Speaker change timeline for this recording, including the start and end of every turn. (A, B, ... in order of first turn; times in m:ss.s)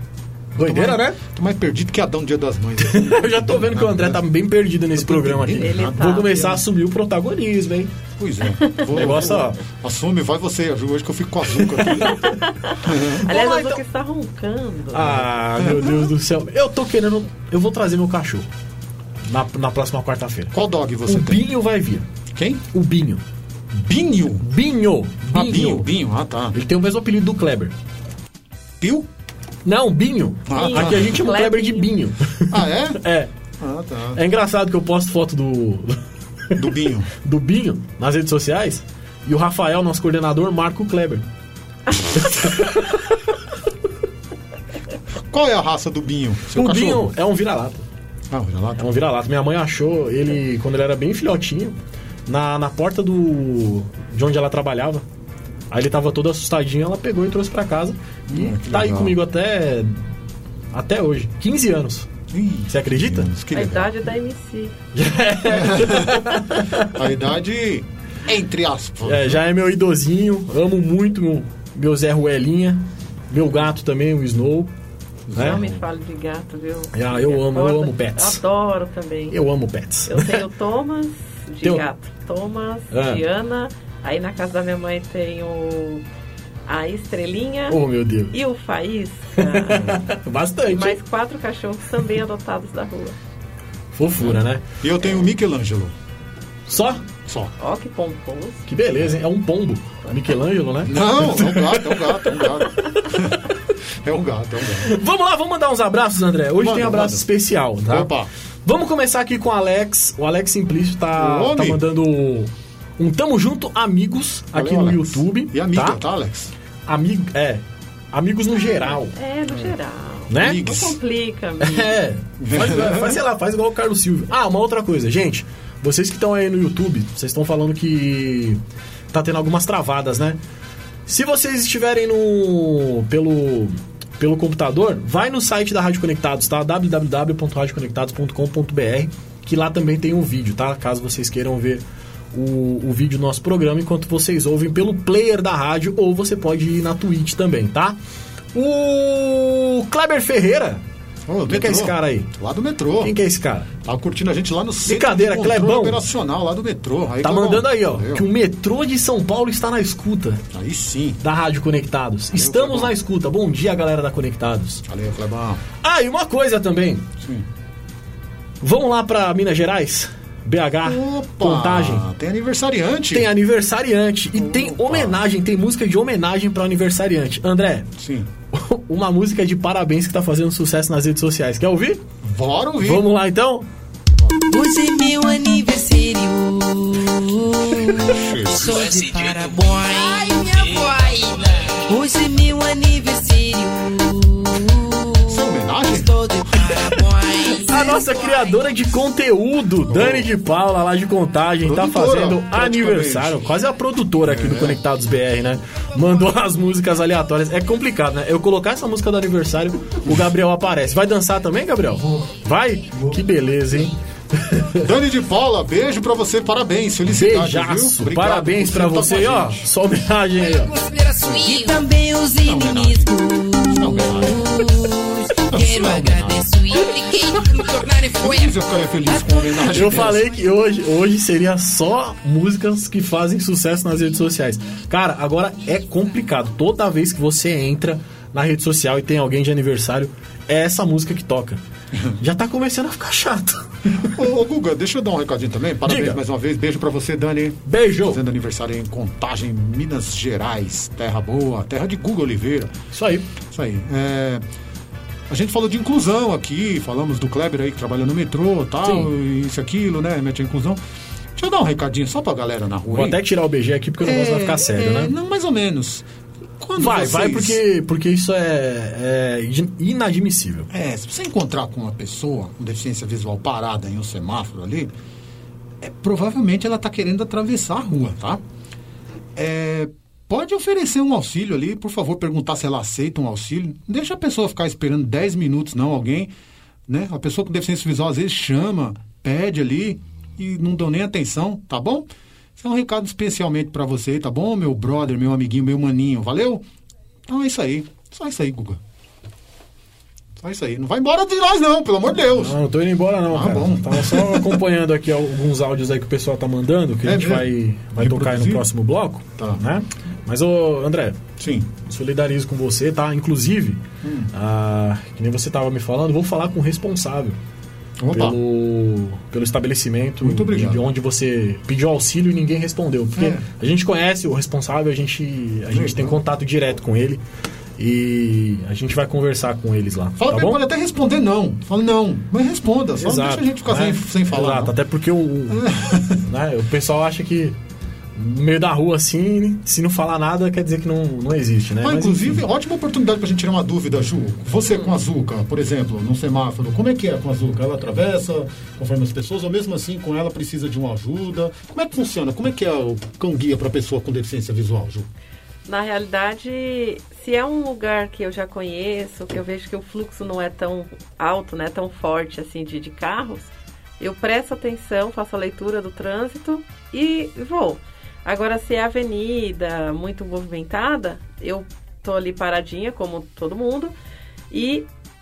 0:00.5-0:01.2 A
0:00.6-0:04.2 B
0:02.8-0:07.9 A
0:05.0-0:06.6 B
0:05.6-0:06.4 C
0:08.2-0:12.2 B
0:08.9-0:09.6 A
0:11.9-0:15.3 C
0:12.8-0:13.2 B
0:13.3-0:13.8 A
0:14.9-0:18.5 A
0:15.6-0:16.0 B
0:19.2-0:20.5 A
0:20.5-0:21.4 B
0:21.1-0:22.1 A
0:22.3-0:22.6 B
0:22.7-0:23.2 A
0:23.7-0:24.4 B
0:24.4-0:25.9 A
0:25.3-0:26.5 B
0:26.5-0:27.7 A
0:28.8-0:29.1 B
0:29.6-0:33.3 A
0:30.5-0:31.2 B
0:30.6-0:31.9 C
0:32.5-0:33.0 B
0:33.6-0:34.2 B
0:34.2-0:36.0 A
0:36.6-0:37.1 B
0:37.2-0:41.2 A
0:42.4-0:43.0 A
0:45.3-0:47.1 B
0:46.5-0:47.8 A
0:48.3-0:48.8 B
0:48.8-0:55.0 A
0:55.7-1:00.0 A
0:58.3-0:59.2 B
1:00.7-1:02.1 A
1:02.3-1:03.9 B
1:02.7-1:03.3 A
1:03.5-1:04.7 C
1:04.9-1:06.9 A
1:05.5-1:06.2 B
1:06.8-1:09.4 B
1:09.0-1:14.7 A
1:15.3-1:15.8 B
1:15.3-1:15.6 A
1:15.4-1:19.3 C
1:16.9-1:18.4 A
1:19.3-1:20.4 A
1:20.1-1:26.0 C
1:22.9-1:23.2 A
1:26.7-1:27.8 C
1:27.7-1:28.3 A
1:28.3-1:29.8 C
1:29.4-1:31.0 A
1:30.7-1:33.1 C
1:33.9-1:34.6 A
1:34.2-1:35.9 B
1:36.7-1:37.0 A
1:37.1-1:37.5 B
1:37.6-1:38.6 C
1:38.6-1:43.0 A
1:40.8-1:43.4 B
1:44.0-1:44.9 B
1:44.9-1:48.1 A
1:46.6-1:47.2 B
1:47.9-1:48.3 B
1:48.6-1:56.0 A
1:51.2-1:51.8 B
1:54.5-1:56.5 B
1:56.9-1:59.1 A
1:58.5-2:01.9 C
2:00.3-2:00.6 A
2:00.4-2:01.0 B
2:01.6-2:08.6 A
2:02.4-2:03.2 B
2:09.1-2:10.4 A
2:11.1-2:28.0 A
2:28.5-2:30.8 A
2:31.3-2:33.1 B
2:31.5-2:32.3 A
2:33.0-2:33.7 A
2:33.8-2:38.2 B
2:34.9-2:36.0 A
2:37.2-2:40.4 A
2:40.5-2:41.2 B
2:41.2-2:44.8 A
2:42.3-2:42.9 B
2:44.9-2:45.6 B
2:45.8-2:47.1 A
2:47.2-2:47.4 B
2:48.6-2:52.0 A
2:50.8-2:53.3 B
2:53.1-2:57.9 A
2:54.4-2:55.2 B
2:58.0-2:58.3 B
2:58.5-3:02.0 A
3:02.2-3:03.0 B
3:02.8-3:03.7 A
3:04.5-3:18.5 D
3:08.1-3:08.7 B
3:15.3-3:16.1 B
3:17.6-3:34.8 A
3:19.9-3:20.3 B
3:21.6-3:23.5 B
3:24.2-3:24.8 B
3:34.8-3:39.6 B
3:37.1-3:40.7 A
3:40.6-3:50.2 D
3:41.2-3:41.6 B
3:42.4-3:44.4 B
3:45.5-3:46.4 B
3:48.2-3:50.3 B
3:49.7-4:01.6 A
4:02.2-4:04.1 A
4:04.0-4:12.7 B
4:05.9-4:06.2 A
4:07.7-4:08.2 A
4:12.9-4:13.3 A
4:13.5-4:14.4 B
4:15.3-4:20.8 B
4:18.8-4:19.1 A
4:21.4-4:23.2 B
4:22.9-4:25.1 A
4:24.0-4:26.1 B
4:26.6-4:27.6 B
4:26.8-4:30.7 A
4:30.7-4:34.9 B
4:35.8-4:38.4 B
4:39.4-4:46.3 B
4:46.9-4:56.6 B
4:57.3-4:58.8 B
5:00.4-5:02.6 B
5:02.4-5:11.2 A
5:03.3-5:04.6 B
5:07.0-5:08.6 B
5:11.4-5:11.7 B
5:11.8-5:17.4 A
5:14.0-5:14.3 B
5:18.0-5:18.4 B
5:18.1-5:27.2 A
5:20.2-5:20.8 B
5:23.2-5:23.4 B
5:25.7-5:26.2 B
5:27.8-5:30.6 A
5:30.2-5:34.7 B
5:33.0-5:35.6 A
5:35.5-5:36.2 B
5:36.2-5:37.6 A
5:38.2-5:42.4 A
5:41.8-5:55.1 B
5:55.6-6:03.5 C
6:04.0-6:13.9 C
6:14.5-6:14.9 C